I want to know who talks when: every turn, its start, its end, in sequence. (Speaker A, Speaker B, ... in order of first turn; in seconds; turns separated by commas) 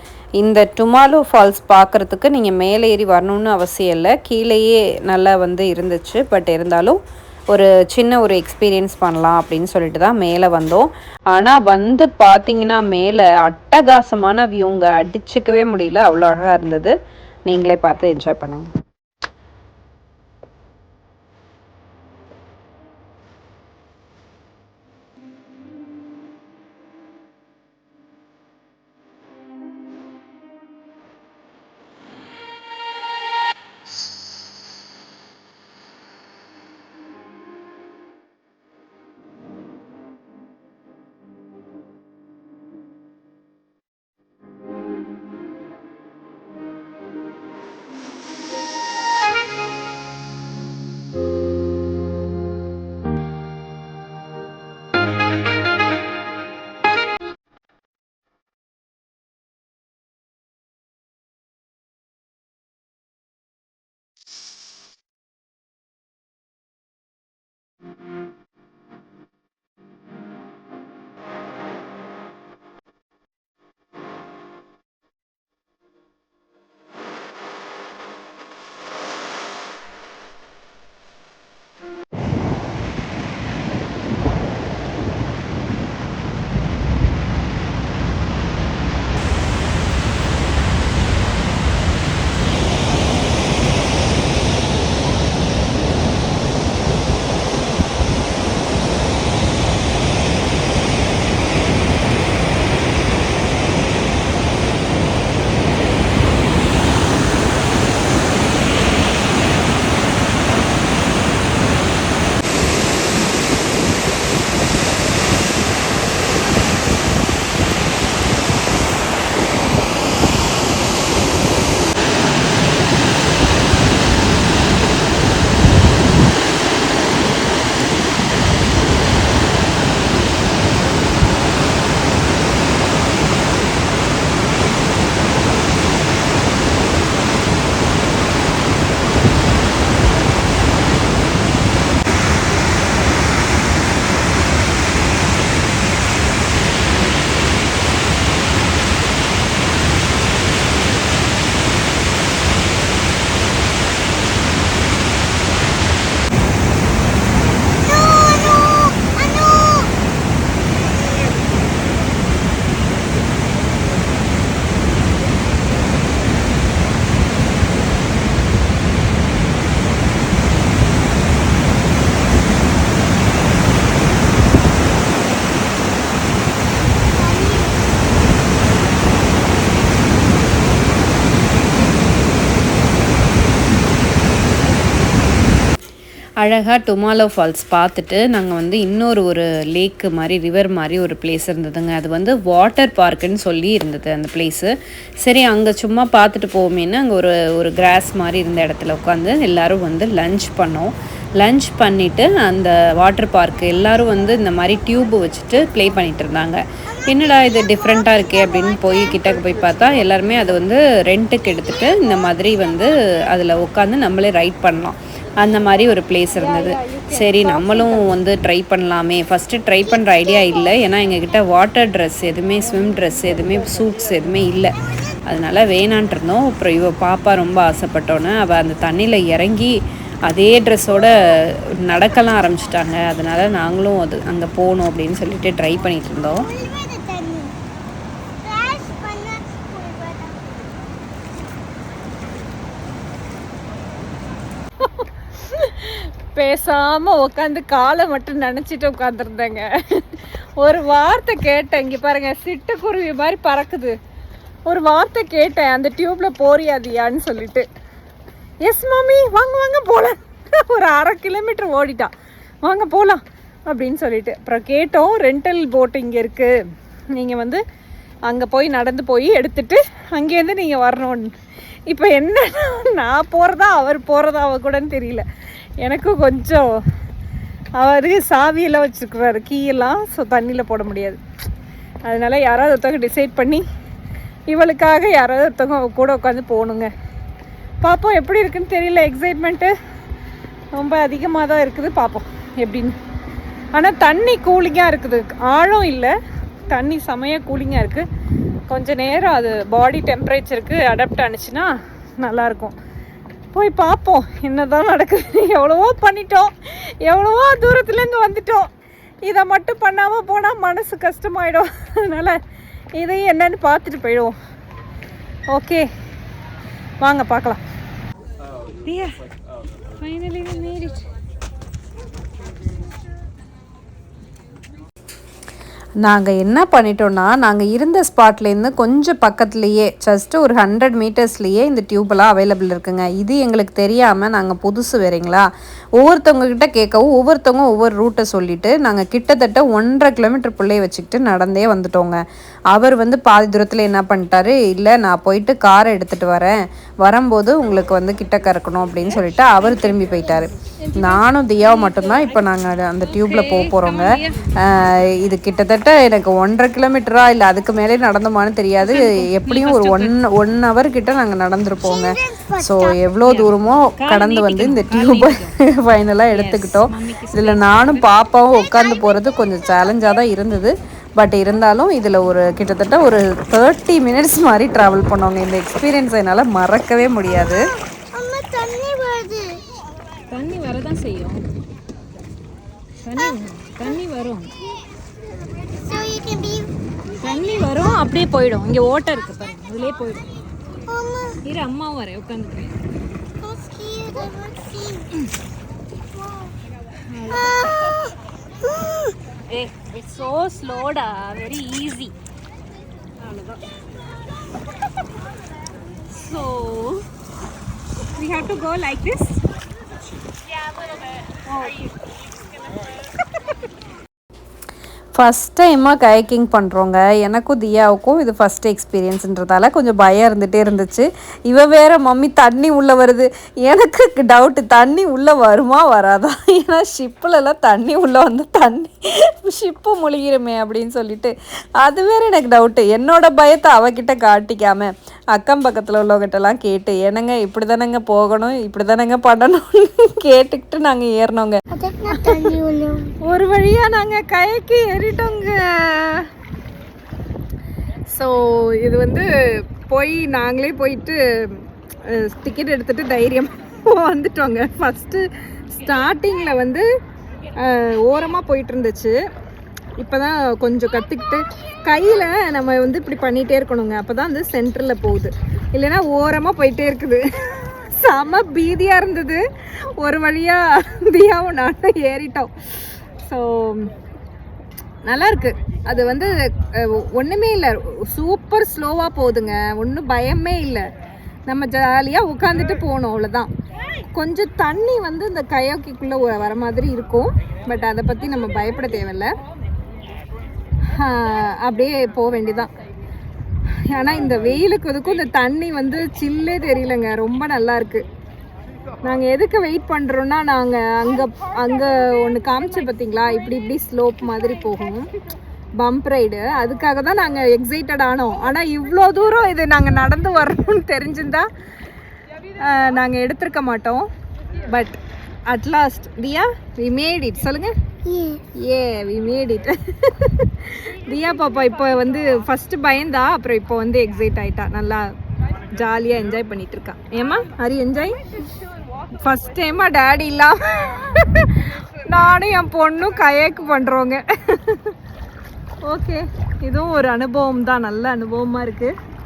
Speaker A: 0.4-7.0, Speaker A: 7.5-16.9, Speaker A: 17.5-18.7, Speaker B: 157.7-159.9, Speaker B: 177.2-177.9, Speaker A: 186.4-229.7, Speaker B: 206.9-208.9, Speaker C: 216.3-218.2, Speaker A: 230.2-236.5, Speaker B: 236.3-237.5, Speaker B: 238.4-240.4, Speaker C: 245.0-253.9, Speaker C: 254.7-257.7, Speaker C: 258.6-262.1, Speaker C: 262.6-266.5, Speaker C: 267.1-267.6, Speaker C: 268.3-271.3, Speaker C: 271.9-275.2, Speaker C: 275.8-276.7, Speaker C: 277.8-281.2, Speaker C: 282.0-283.6, Speaker C: 284.5-286.9, Speaker C: 287.8-289.7, Speaker C: 290.7-292.9, Speaker C: 293.7-296.1, Speaker C: 296.7-298.1, Speaker C: 298.7-302.7, Speaker C: 303.5-308.7, Speaker C: 309.2-312.4, Speaker C: 312.9-314.3, Speaker C: 315.5-315.9, Speaker C: 317.0-317.6, Speaker C: 318.8-319.2, Speaker C: 319.9-321.0, Speaker A: 326.0-335.5, Speaker A: 336.0-342.2, Speaker A: 342.7-354.1, Speaker C: 349.6-352.4, Speaker C: 353.0-354.5, Speaker A: 354.7-377.6, Speaker C: 358.8-360.2, Speaker B: 361.8-363.0, Speaker C: 363.2-365.6, Speaker C: 366.2-368.1, Speaker B: 368.5-370.2, Speaker B: 377.2-379.6, Speaker C: 380.3-381.4, Speaker C: 383.0-384.5, Speaker B: 385.6-386.7, Speaker C: 387.2-390.2, Speaker B: 387.3-388.0, Speaker B: 390.8-391.4, Speaker C: 391.4-392.8, Speaker B: 393.4-395.1, Speaker C: 397.1-397.9, Speaker B: 397.3-398.1, Speaker B: 398.6-399.0, Speaker C: 399.5-402.1, Speaker C: 403.2-403.6, Speaker C: 406.1-407.0, Speaker C: 408.1-409.4, Speaker C: 411.4-411.9, Speaker A: 415.1-439.7, Speaker A: 440.2-441.5, Speaker B: 441.7-443.1, Speaker C: 442.1-442.5, Speaker C: 443.2-446.3, Speaker C: 448.1-456.9, Speaker C: 457.5-459.2, Speaker C: 460.0-469.4, Speaker C: 470.0-472.5, Speaker C: 473.2-473.9, Speaker C: 475.0-480.9, Speaker C: 481.5-483.5, Speaker C: 484.1-489.3, Speaker C: 490.9-492.7, Speaker C: 493.9-498.1, Speaker C: 499.0-505.1, Speaker C: 505.8-511.5, Speaker C: 512.6-514.0, Speaker C: 514.7-517.7, Speaker B: 518.0-518.4, Speaker C: 518.6-525.1, Speaker C: 525.7-528.3, Speaker C: 529.2-534.9, Speaker C: 535.8-538.9